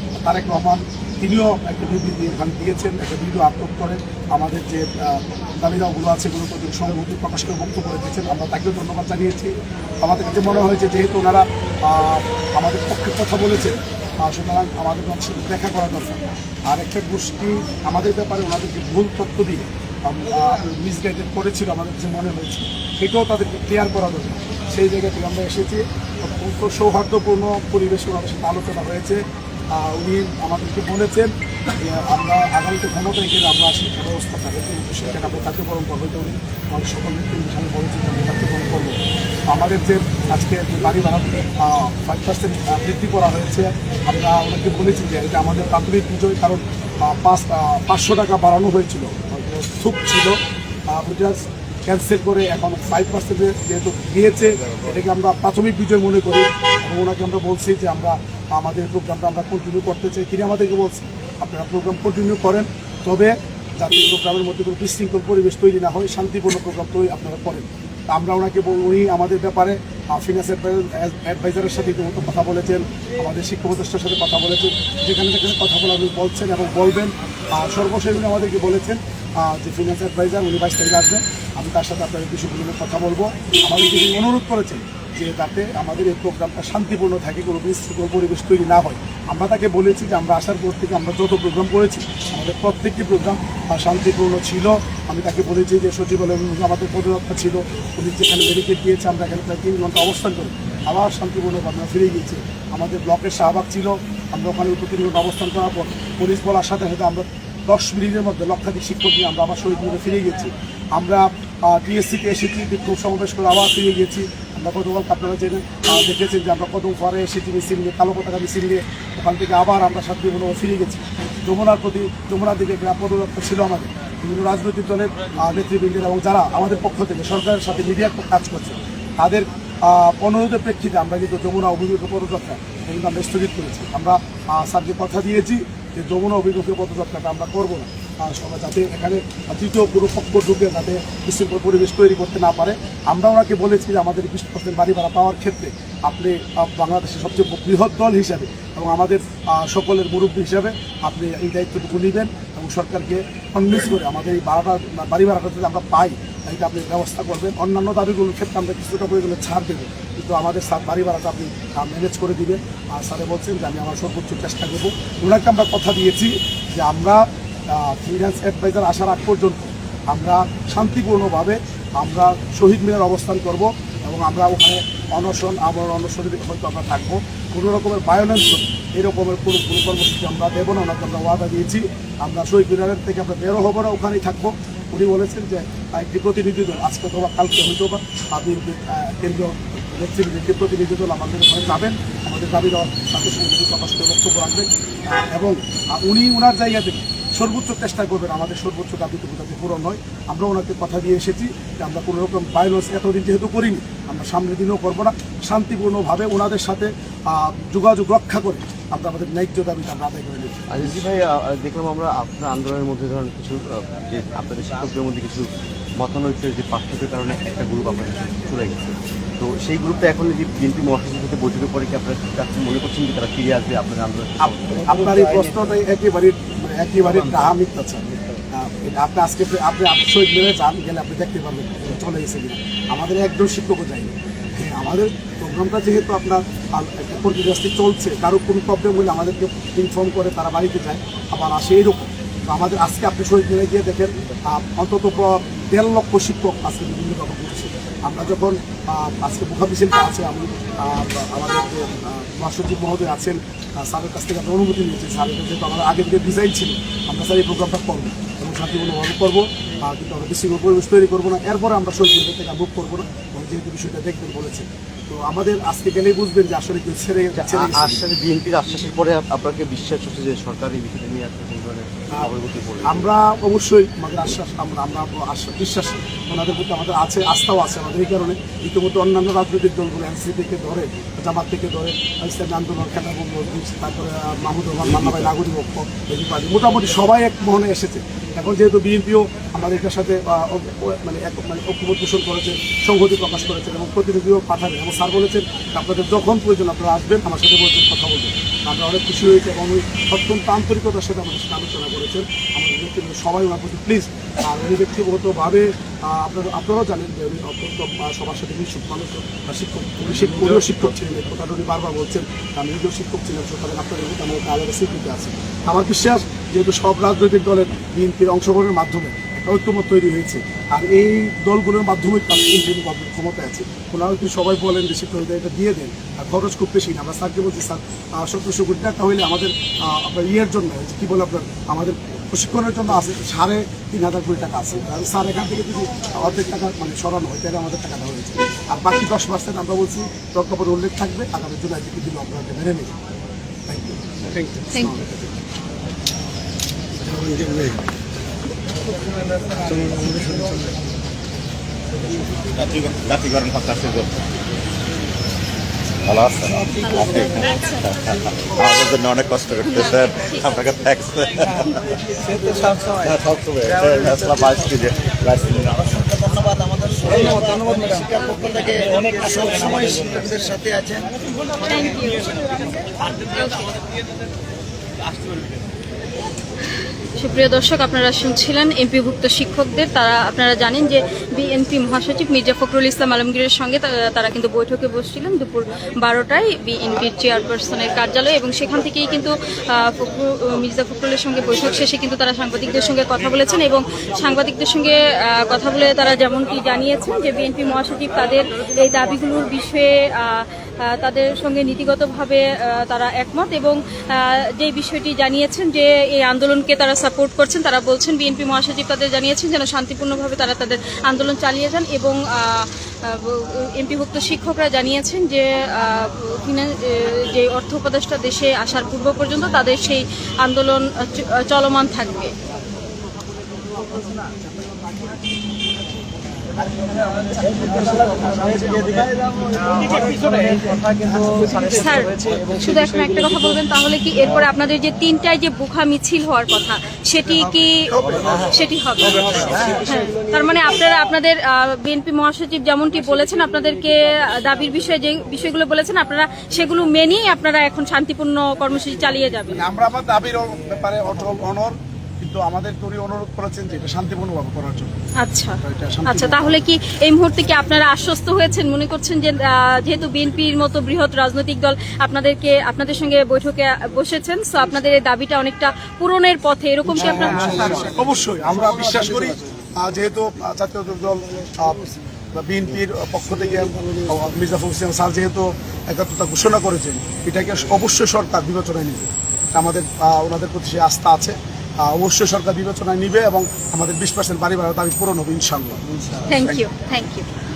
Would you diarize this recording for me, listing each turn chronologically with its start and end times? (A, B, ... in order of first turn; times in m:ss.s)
0:00.2-0:39.0 A
0:39.5-0:50.4 A
0:50.9-3:31.0 A
3:30.7-3:45.5 B
3:44.4-4:28.1 A
4:27.3-4:33.1 B
4:32.9-5:42.9 A
5:43.7-5:45.3 A
5:44.7-5:45.0 C
5:50.0-5:50.2 D
5:52.5-5:54.5 E
5:56.0-6:02.1 E
5:56.8-5:58.1 C
5:59.6-6:00.6 C
6:02.9-6:06.3 E
6:07.1-6:07.9 D
6:08.2-6:08.8 C
6:09.0-6:11.0 D
6:09.8-6:10.2 E
6:11.6-6:13.8 C
6:17.2-7:02.4 C
7:07.7-7:09.1 D
7:09.7-7:11.0 D
7:11.3-7:29.6 C
7:18.2-7:18.4 B
7:29.5-7:34.9 A
7:35.2-7:47.9 C
7:35.6-7:36.6 A
7:47.0-8:06.6 A
8:06.3-8:07.3 C